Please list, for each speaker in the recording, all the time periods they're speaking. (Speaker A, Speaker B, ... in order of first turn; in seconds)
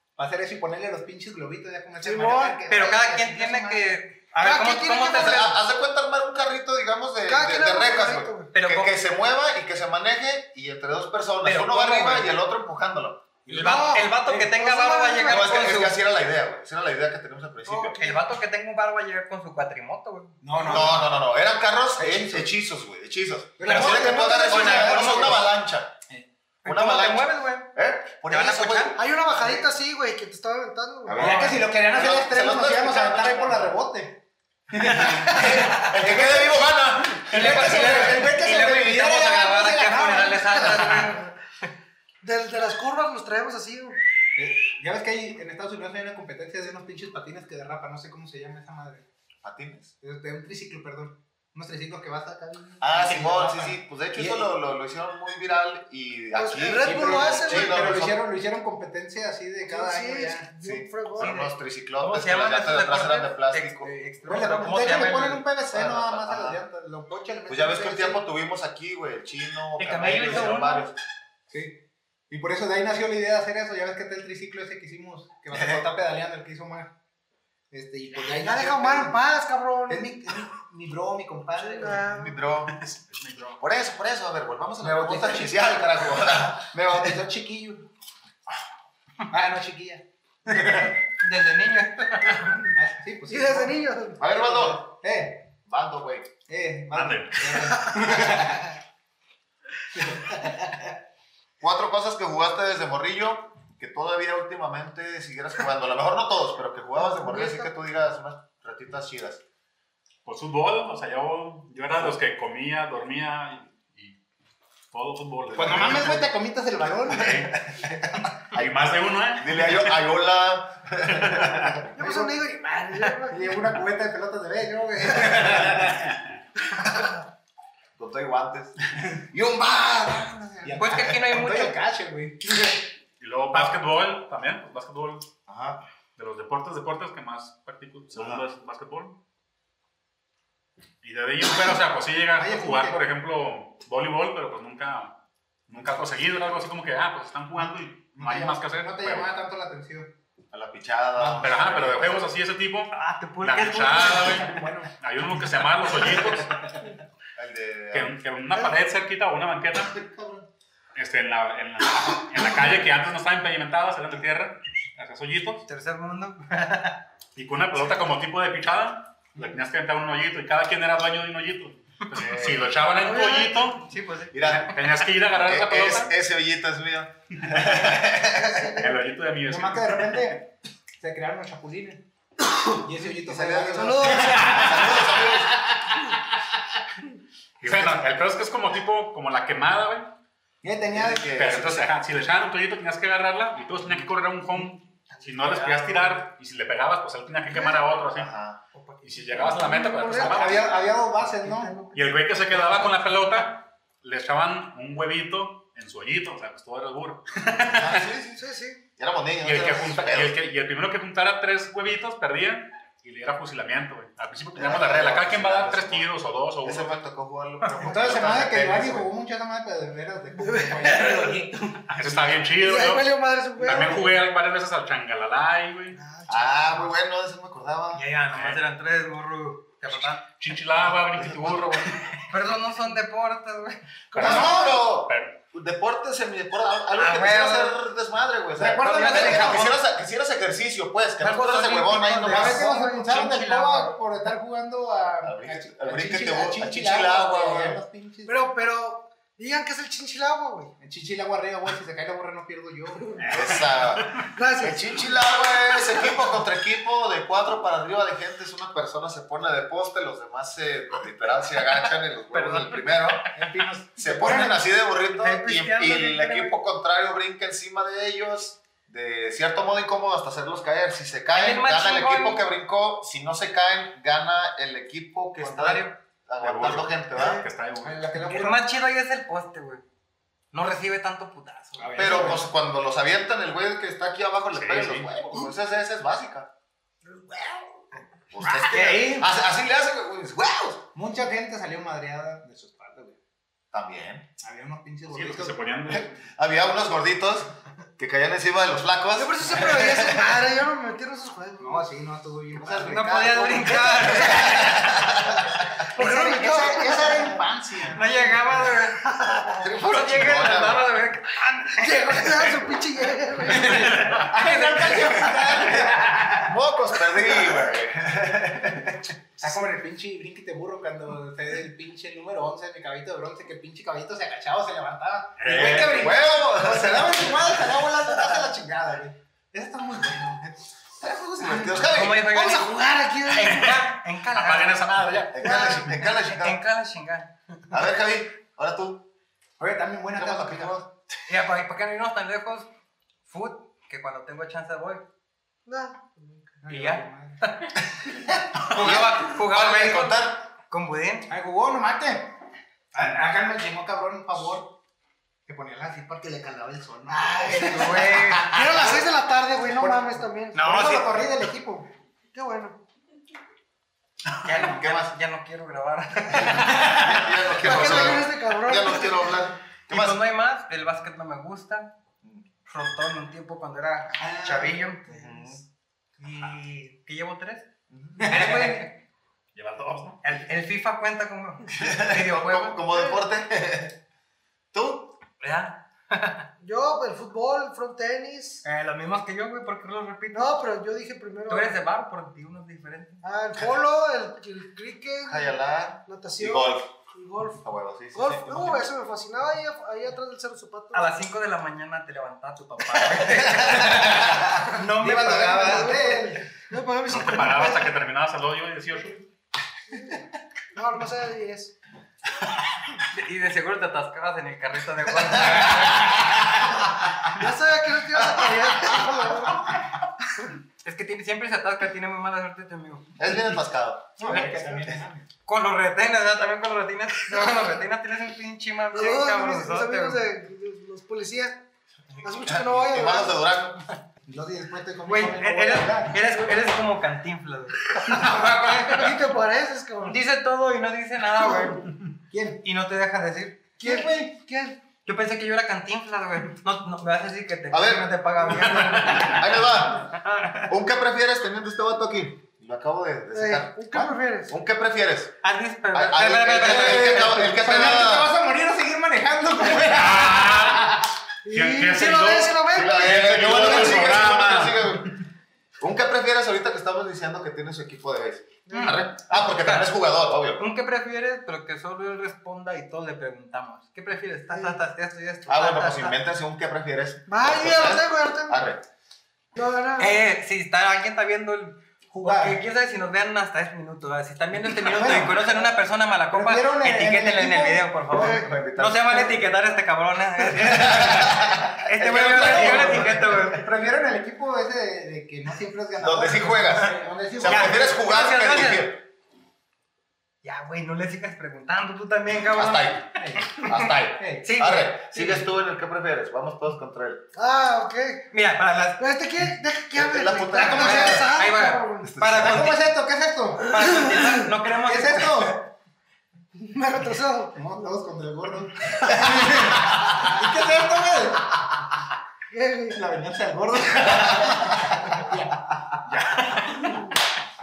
Speaker A: 0.1-4.0, 13.4-14.5, 20.4-21.2, 22.0-22.5, 23.6-25.5, 29.4-29.7, 31.1-36.5, 37.2-40.3, 44.3-49.0, 50.0-54.5, 56.7-60.5, 64.2-68.2, 71.5-76.9, 77.7-79.2, 79.9-82.1, 84.8-85.9, 86.5-87.9, 89.3-90.9, 92.7-95.5, 96.5-98.8, 99.9-100.9, 115.5-118.2, 122.0-126.1, 130.6-132.8, 142.4-143.0, 147.6-150.1, 153.9-154.9, 160.1-160.4, 179.5-182.0, 182.7-185.0, 190.6-191.3, 200.2-201.8, 217.8-221.8, 234.2-234.7, 238.6-239.7, 242.2-248.3, 250.8-253.4, 263.4-264.6, 277.8-278.6, 281.8-282.4, 288.4-289.3, 290.9-293.2, 294.4-295.8, 301.6-303.9, 305.9-308.6, 313.6-316.5, 319.4-330.6, 331.4-331.8, 339.6-340.7, 346.6-347.4, 351.3-352.3, 352.9-354.8, 355.5-359.1, 359.8-361.9, 374.2-374.8, 378.2-378.7, 403.9-404.3, 405.0-406.4, 424.2-425.3, 434.2-436.2, 442.3-442.6, 443.8-444.3, 456.6-461.1, 482.1-482.6, 484.8-485.7, 486.3-488.3, 490.7-498.0, 503.1-504.5, 510.6-511.2, 512.3-514.1, 514.7-515.7, 517.5-521.8, 522.9-526.0
Speaker B: 2.0-2.6, 4.4-5.5, 7.2-8.5, 13.5-15.7, 28.9-31.5, 40.2-41.3, 42.2-44.0, 56.4-58.0, 59.6-61.3, 78.3-80.1, 81.8-82.4, 93.3-94.2, 107.0-107.7, 121.9-123.5, 173.0-173.7, 183.7-184.6, 199.5-200.8, 208.3-208.8, 220.4-221.3, 222.5-224.1, 225.9-226.8, 234.1-234.7, 242.3-243.1, 248.2-250.7, 254.3-254.9, 287.1-287.6, 299.1-301.9, 305.9-307.4, 309.1-309.4, 311.6-314.0, 332.2-333.8, 335.4-335.9, 345.6-346.5, 358.4-360.7, 362.3-362.8, 367.6-369.1, 382.9-383.2, 386.6-388.6, 390.3-391.8, 393.2-395.5, 396.1-401.1, 405.5-407.9, 409.9-410.2, 410.7-411.7, 417.3-419.7, 424.2-424.5, 427.3-427.7, 428.9-431.6, 432.2-433.4, 438.1-440.2, 441.4-441.8, 443.8-444.8, 453.3-454.5, 461.4-464.1, 468.7-469.0, 474.5-474.8, 477.3-478.6, 479.5-480.2, 488.1-488.4, 507.3-508.3, 509.0-512.1, 516.6-517.9, 522.5-523.0
Speaker C: 2.7-5.5, 8.5-8.9, 11.4-12.4, 13.5-16.0, 17.6-20.9, 23.6-25.4, 26.6-27.7, 28.2-29.0, 35.4-35.9, 37.3-41.3, 61.2-65.5, 69.8-70.8, 90.8-92.7, 130.8-131.8, 152.9-154.5, 165.7-167.0, 173.8-174.7, 195.1-196.2, 198.7-199.9, 201.4-203.1, 220.9-221.8, 227.9-230.2, 232.3-233.8, 236.9-237.8, 238.8-239.8, 241.2-243.9, 262.3-264.6, 265.1-266.6, 271.3-272.5, 275.4-275.9, 278.2-279.8, 280.5-282.4, 288.5-289.2, 302.7-304.8, 307.9-312.3, 313.4-316.0, 331.9-337.3, 341.3-342.7, 343.2-345.0, 346.7-347.8, 348.6-351.3, 357.1-358.8, 360.5-361.1, 364.4-367.4, 369.9-371.9, 372.6-375.1, 376.2-377.7, 378.2-379.0, 380.2-382.8, 385.4-386.5, 388.6-390.5, 391.5-393.2, 400.9-406.0, 413.1-416.3, 420.8-423.1, 424.2-424.9, 425.4-430.2, 435.1-439.1, 440.0-441.9, 442.6-443.6, 445.0-449.5, 450.1-450.7, 455.4-457.6, 468.7-470.0, 470.6-476.2, 480.0-493.7, 497.4-498.9, 500.4-503.0, 504.4-505.4, 508.3-509.0, 510.6-512.8, 513.6-515.5, 526.3-527.1
Speaker D: 5.1-13.3, 15.3-18.1, 20.6-26.0, 26.6-29.0, 31.1-33.8, 34.8-38.6, 49.4-49.9, 52.8-58.2, 60.6-63.9, 65.7-66.6, 67.5-71.0, 75.5-75.9, 82.0-82.8, 83.6-86.7, 94.2-94.8, 95.6-96.3, 101.6-109.4, 115.5-116.3, 117.2-117.8, 118.5-121.9, 128.0-131.1, 135.5-135.8, 138.1-138.4, 150.5-152.3, 157.3-158.2, 174.3-178.8, 183.1-185.6, 190.9-191.9, 198.1-198.6, 207.6-208.4, 208.9-210.3, 214.5-216.1, 216.6-219.1, 226.3-228.1, 231.0-231.9, 234.2-242.6, 245.2-247.8, 253.3-263.3, 263.9-277.4, 281.9-286.5, 288.3-290.9, 293.7-294.3, 295.9-300.4, 302.6-305.7, 309.2-310.9, 315.7-319.1, 325.4-327.9, 331.0-332.3, 335.1-336.6, 337.7-339.1, 340.1-340.9, 348.1-350.4, 364.5-365.1, 366.3-370.2, 375.1-375.6, 377.9-378.5, 381.7-384.0, 384.7-385.2, 395.2-396.9, 397.6-398.9, 403.2-404.4, 415.3-416.8, 418.2-419.0, 423.2-424.9, 432.2-433.8, 447.7-448.1, 449.1-455.4, 455.9-458.3, 462.7-465.1, 465.8-470.6, 475.5-478.8, 488.1-489.3, 490.6-493.5, 496.0-499.0, 502.4-507.2, 509.9-511.3, 512.0-512.7, 519.1-520.4, 524.0-525.0
Speaker E: 82.8-83.6, 96.9-97.9, 110.2-114.2, 114.9-116.3, 117.1-117.6, 118.5-119.8, 121.2-121.6, 133.2-135.3, 136.2-139.2, 141.0-149.3, 151.2-156.6, 157.9-160.0, 160.9-165.6, 167.3-173.8, 174.4-176.1, 178.7-180.3, 187.6-190.2, 191.3-198.3, 199.0-200.7, 201.9-208.1, 209.4-217.0, 221.9-226.0, 228.3-228.6, 230.4-232.2, 234.1-235.3, 253.2-254.3, 276.4-278.1, 284.5-285.1, 295.1-296.2, 325.4-326.1, 334.3-335.3, 379.5-380.2, 407.1-409.2, 448.8-449.2, 459.8-461.0, 461.5-465.2, 526.0-527.1